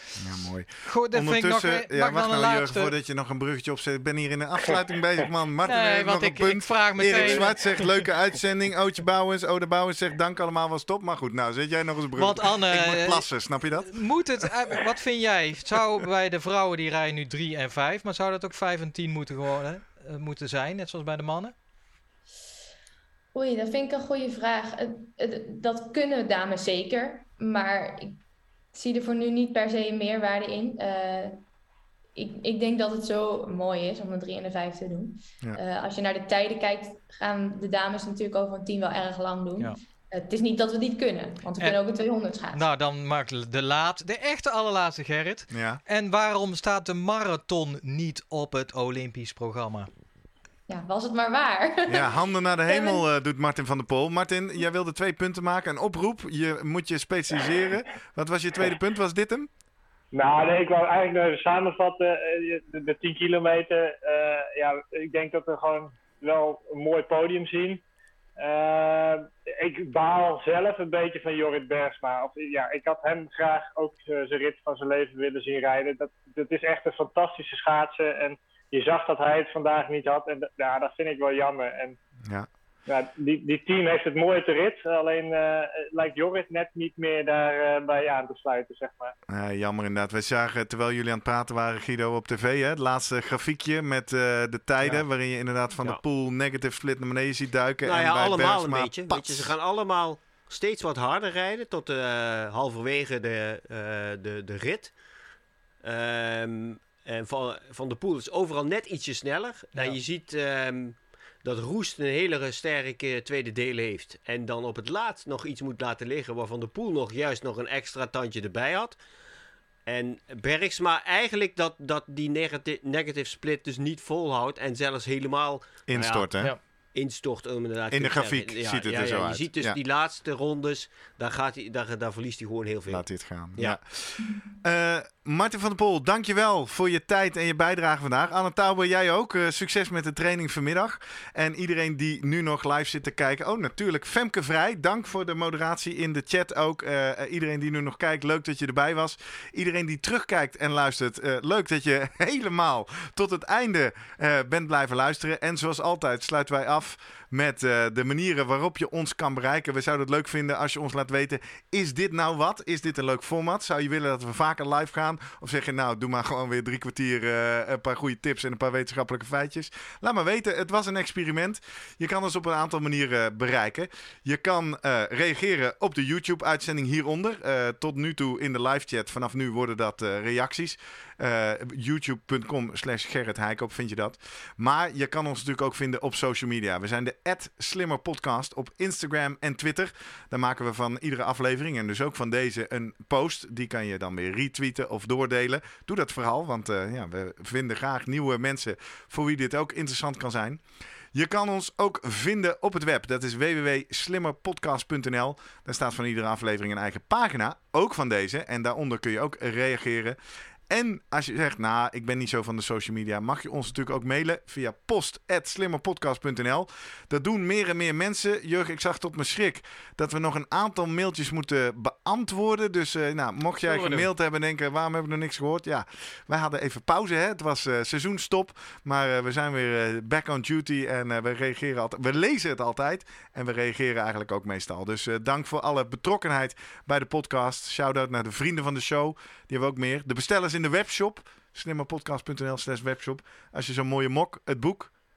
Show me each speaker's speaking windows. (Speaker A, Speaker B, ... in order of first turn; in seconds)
Speaker A: 0.2-14.0, 45.5-45.8, 51.9-59.5, 89.3-99.5, 125.9-126.5, 127.9-129.8, 132.9-200.6, 201.1-210.2, 210.7-244.9
Speaker B: 0.8-2.9, 5.6-7.9, 12.2-13.3, 13.8-21.6, 42.5-49.9, 109.7-110.0, 223.7-224.1
Speaker C: 7.0-7.5, 60.1-67.8, 68.4-82.0, 82.9-89.2
Speaker D: 23.3-28.2, 28.7-31.4, 32.2-42.6, 50.7-53.0
Speaker E: 97.8-104.9, 105.8-119.0, 119.9-126.3, 126.9-133.8